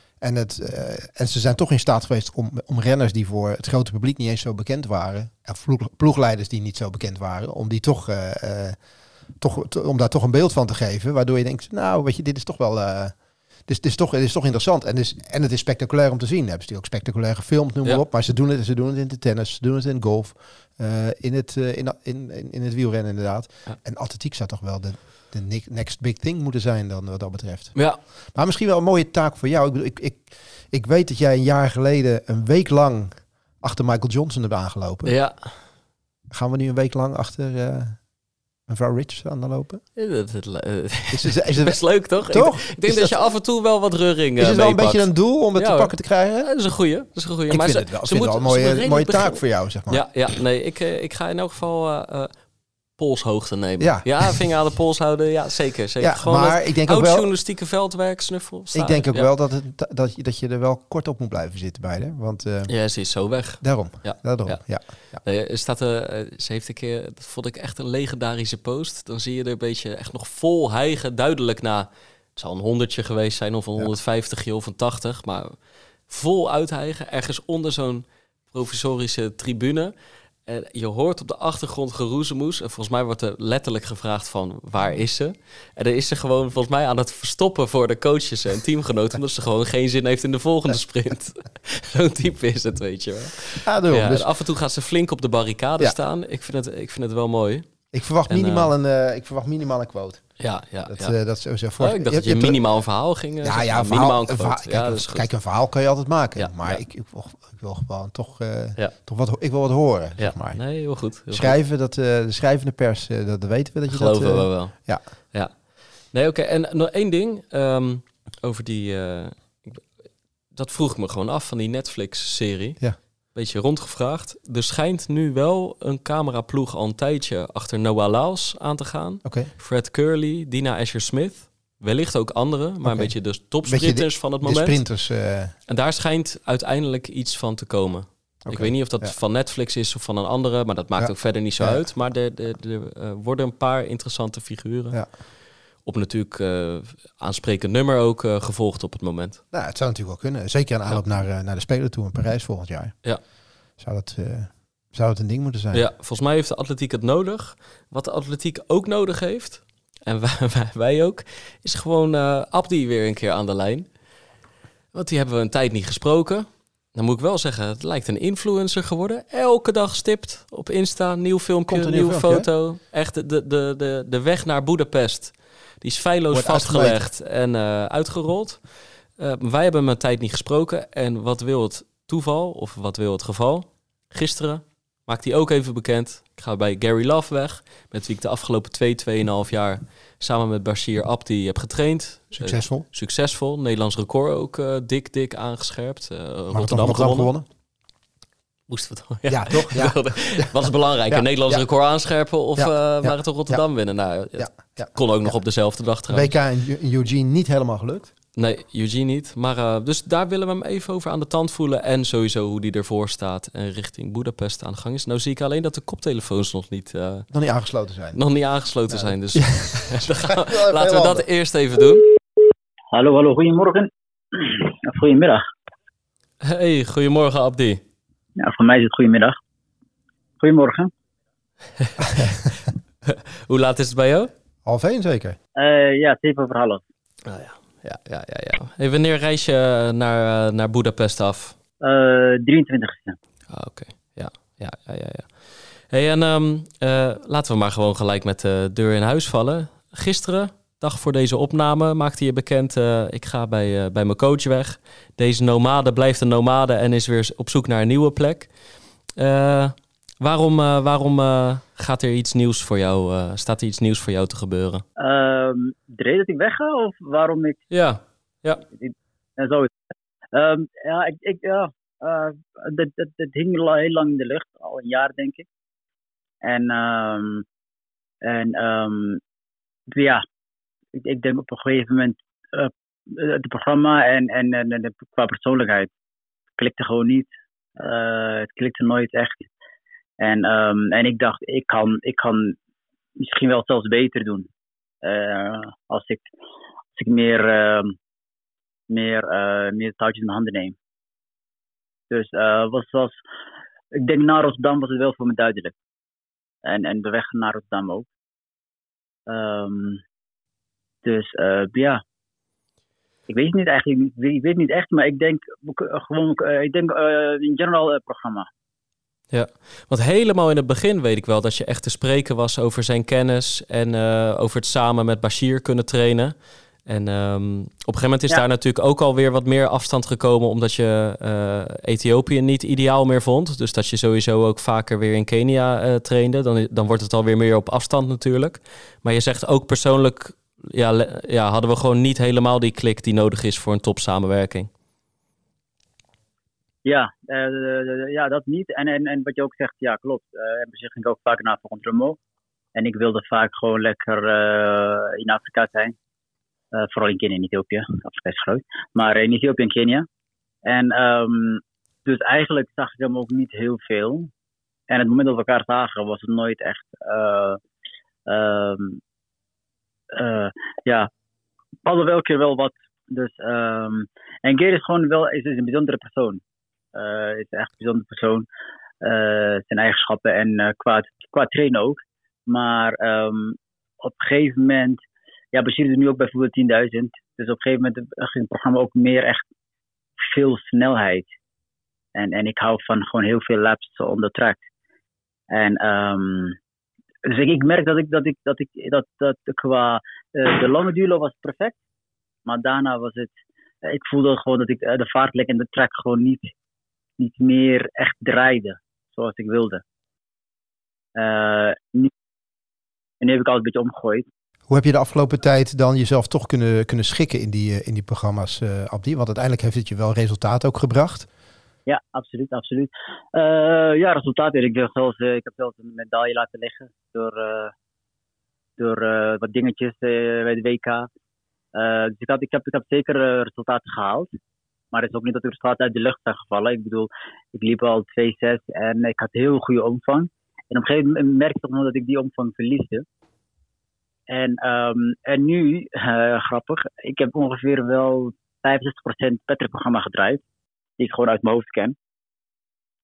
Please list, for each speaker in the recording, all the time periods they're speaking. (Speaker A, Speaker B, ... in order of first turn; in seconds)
Speaker A: 0.2-35.2, 36.3-38.1, 38.7-39.8, 41.1-43.1, 44.4-46.5, 47.5-50.1, 53.8-54.5, 56.0-57.3, 58.7-65.2, 93.6-94.3, 97.9-115.0, 129.2-129.5, 132.8-135.6, 138.5-139.1, 141.0-141.9, 149.5-153.1, 153.8-155.9, 171.7-172.5, 176.3-177.0, 192.3-192.9, 196.5-197.5, 199.3-200.5, 201.1-201.7, 202.6-208.1, 217.3-218.2, 218.9-221.3, 232.0-232.3, 234.7-235.4, 414.7-421.3
Speaker B: 27.8-28.0, 35.0-35.6, 40.0-52.3, 53.0-59.3, 62.7-75.6, 76.1-79.9, 80.5-98.7, 100.4-101.2, 101.8-105.3, 106.4-106.8, 110.2-111.6, 113.9-119.8, 120.5-122.8, 123.3-134.8, 135.7-145.1, 145.8-149.4, 155.7-163.9, 164.9-197.3, 198.7-206.3, 208.4-217.3, 218.1-222.0, 226.4-227.8, 233.1-234.3, 237.3-241.6, 243.5-258.5, 259.2-264.8, 267.7-268.6, 319.3-326.4, 326.9-344.7
Speaker C: 222.9-225.4, 228.4-229.4, 230.4-230.9, 235.6-236.8, 241.8-243.2, 265.0-267.6, 268.7-269.7, 270.3-275.5, 276.4-277.4, 278.2-279.2, 279.9-280.2, 281.0-285.9, 286.6-289.5, 290.2-292.6, 293.2-294.5, 295.0-296.2, 296.9-298.0, 298.9-300.8, 302.1-303.2, 304.0-305.8, 306.6-308.1, 309.3-310.0, 311.0-312.0, 313.3-318.5, 346.9-352.2, 352.8-355.9, 356.7-360.1, 360.6-364.3, 364.9-367.6, 368.3-369.0, 370.1-371.1, 371.9-376.4, 376.9-378.5, 379.0-385.0, 385.5-389.4, 390.2-391.3, 392.1-394.6, 395.5-396.6, 397.3-401.8, 402.5-406.5, 407.2-409.8, 411.2-412.1, 413.2-414.3, 421.9-427.7, 428.8-431.1, 431.8-434.3, 434.9-443.1, 444.3-450.4, 451.0-452.0